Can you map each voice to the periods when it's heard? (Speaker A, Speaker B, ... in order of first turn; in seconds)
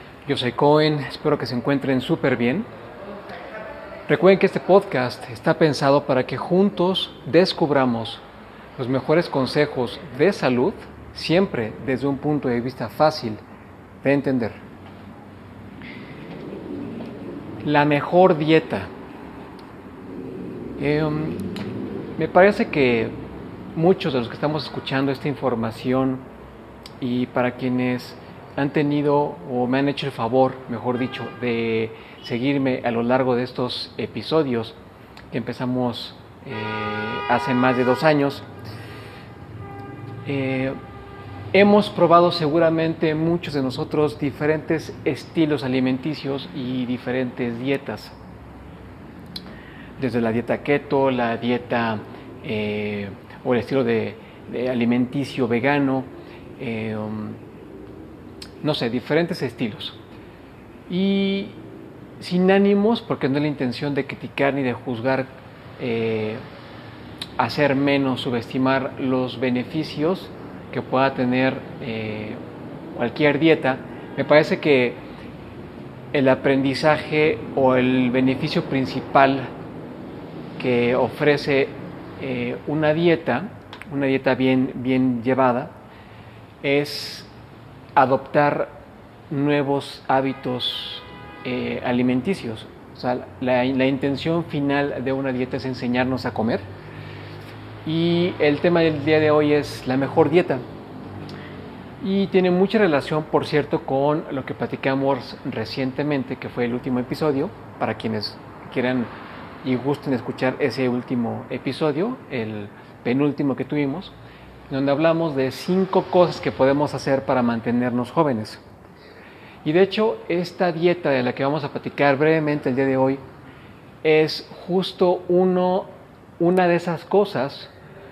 Speaker A: 0.3-2.7, 4.1-8.2, 8.8-13.4, 14.0-14.6, 17.6-18.9, 20.8-21.4, 22.2-23.2, 23.8-26.2, 27.0-34.8, 35.3-38.5, 40.3-40.8, 41.5-48.1, 50.0-57.4, 58.6-60.0, 60.9-61.6, 62.2-66.4, 67.4-72.4, 73.0-75.0, 76.1-79.5, 80.6-85.7, 86.6-87.3, 88.0-88.8, 89.3-96.7, 97.8-100.7, 102.0-109.1, 109.6-114.1, 114.7-118.6, 119.6-123.2, 124.0-127.7